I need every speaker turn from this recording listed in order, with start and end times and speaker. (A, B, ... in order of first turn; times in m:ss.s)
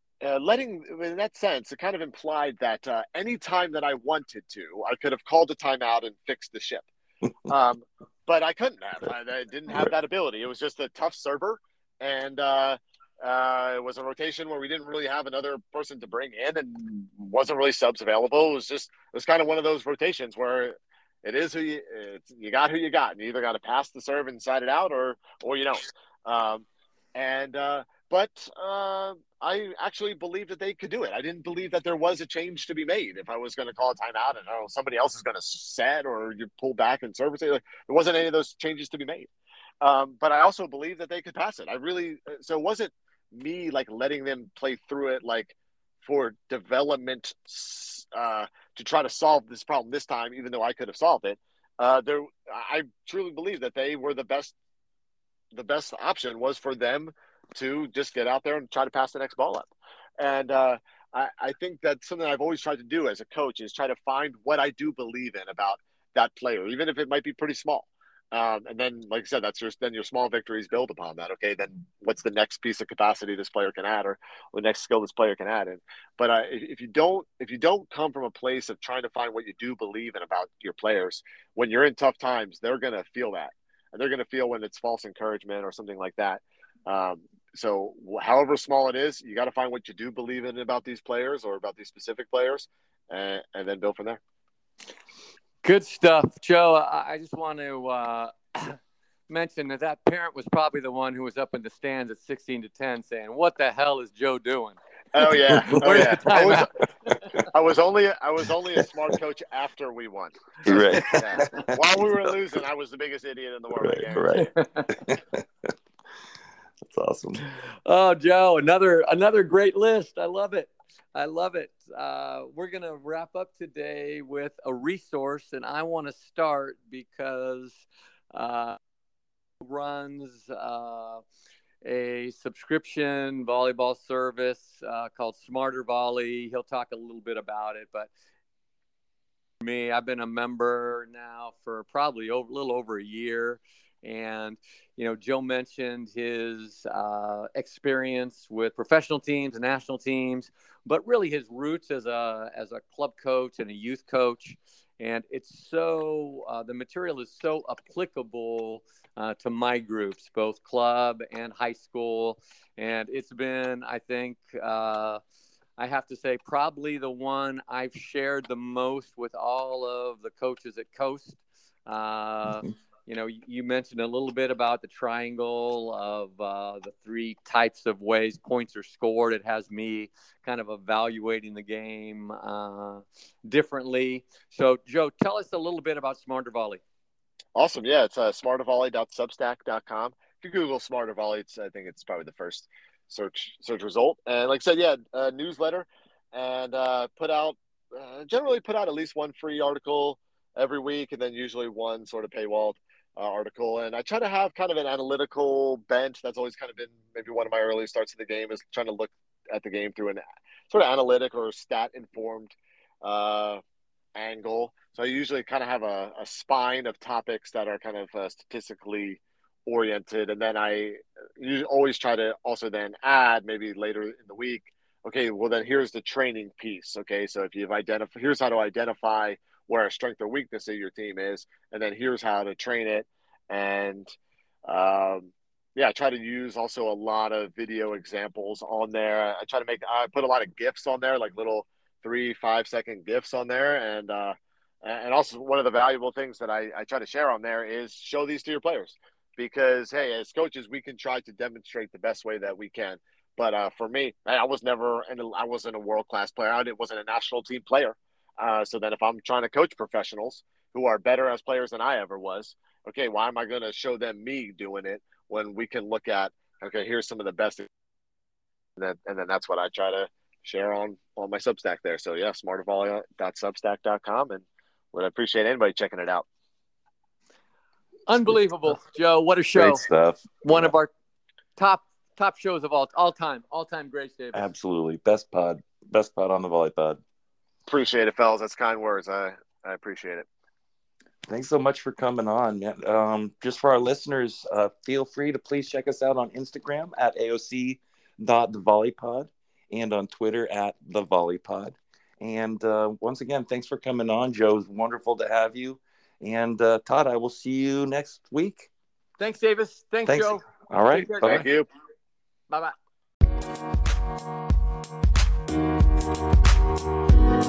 0:00.2-0:06.9 A
0:07.5-0:39.3 A
0:39.8-0:54.5 A
0:55.5-1:34.2 A
1:35.6-1:44.8 B
1:45.1-1:46.7 A
1:45.5-1:46.6 C
1:45.6-1:46.7 B
1:47.5-1:54.5 A
1:50.6-1:52.3 C
1:53.8-1:55.7 C
1:54.4-1:54.9 B
1:56.8-1:57.5 C
1:57.9-2:08.8 B
2:09.6-2:11.2 B
2:11.8-2:18.1 B
2:19.6-2:45.2 B
2:45.8-3:06.8 B
3:07.6-3:33.6 A
3:34.2-3:54.1 A
3:54.7-4:27.7 A
4:28.8-4:36.3 A
4:38.1-4:39.8 B
4:39.6-4:40.8 C
4:40.4-4:40.9 B
4:41.6-4:44.5 B
4:44.3-4:47.0 C
4:47.7-4:50.3 A
4:51.3-5:08.7 C
5:09.2-5:11.5 B
5:10.1-5:11.4 C
5:11.2-5:11.7 A
5:12.5-5:12.7 B